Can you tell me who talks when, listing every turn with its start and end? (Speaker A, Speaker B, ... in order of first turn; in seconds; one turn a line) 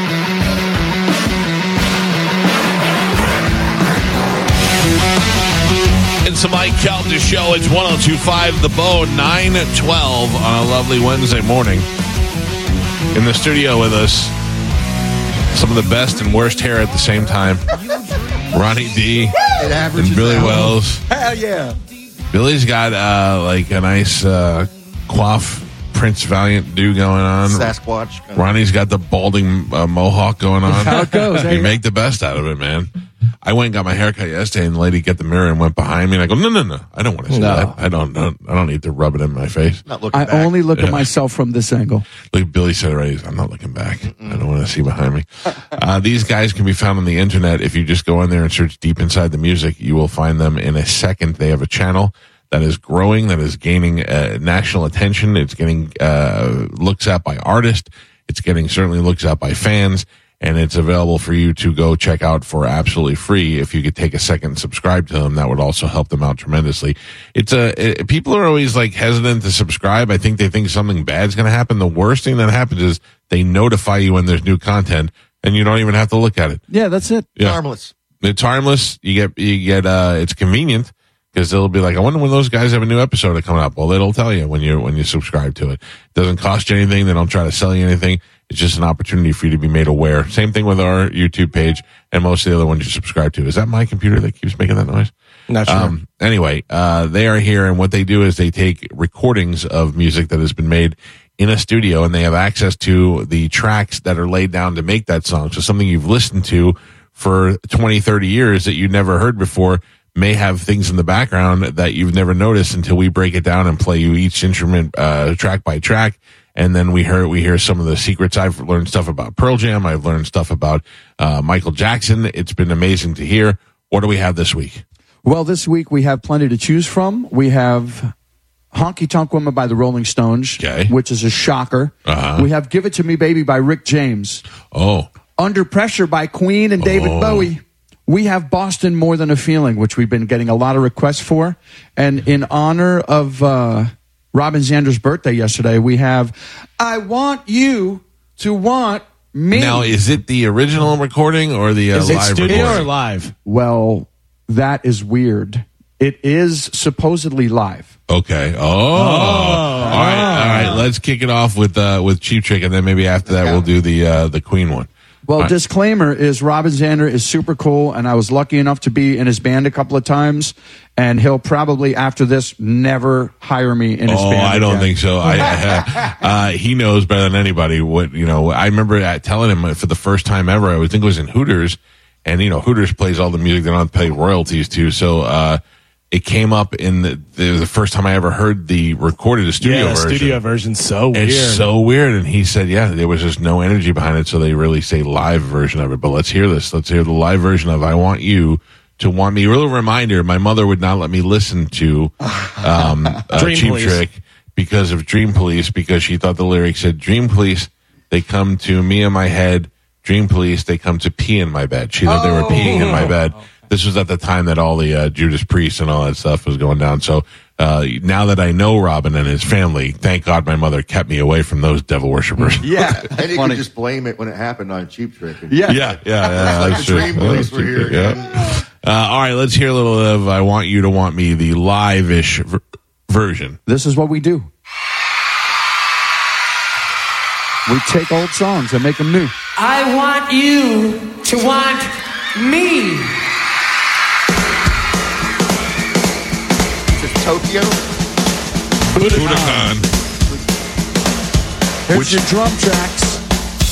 Speaker A: 6.2-11.9
Speaker A: 13.1-14.3
Speaker A: 15.5-17.7
Speaker A: 18.5-19.4
Speaker B: 19.4-21.7
Speaker C: 19.6-20.7
Speaker A: 19.9-21.0
Speaker A: 22.3-27.7
Speaker C: 27.4-28.5
Speaker A: 28.3-32.9
Speaker B: 30.6-31.8
Speaker A: 33.4-39.8
Speaker D: 37.3-37.8
Speaker C: 39.8-40.6
Speaker B: 40.1-42.0
Speaker A: 40.8-41.1
Speaker A: 42.3-76.6
Speaker C: 44.0-44.4
Speaker B: 76.7-77.3
Speaker C: 77.4-77.9
Speaker A: 78.2-95.1
Speaker D: 95.5-95.9
Speaker A: 95.6-124.8
Speaker B: 125.2-128.1
Speaker B: 128.7-134.4
Speaker A: 130.6-130.9
Speaker A: 132.1-132.5
Speaker A: 134.7-135.1
Speaker B: 135.3-149.9
Speaker A: 136.8-137.5
Speaker A: 149.5-152.9
Speaker B: 151.9-152.8
Speaker D: 152.0-153.3
Speaker B: 153.4-157.9
Speaker A: 158.1-165.5
Speaker D: 158.9-160.8
Speaker B: 159.9-160.4
Speaker C: 163.2-163.7
Speaker B: 165.2-176.0
Speaker A: 174.1-185.6
Speaker A: 186.1-190.4
Speaker D: 189.6-191.7
Speaker A: 191.1-222.9
Speaker B: 202.8-203.2
Speaker D: 203.3-204.0
Speaker B: 212.0-213.1
Speaker D: 212.5-213.1
Speaker B: 222.4-223.6
Speaker C: 222.9-228.5
Speaker B: 225.5-227.2
Speaker A: 225.6-233.6
Speaker B: 233.7-234.5
Speaker B: 237.7-239.3
Speaker E: 239.6-243.2
Speaker C: 247.0-247.8
Speaker B: 248.9-249.8
Speaker D: 248.9-249.3
Speaker A: 249.1-249.9
Speaker B: 251.9-253.2
Speaker A: 251.9-252.2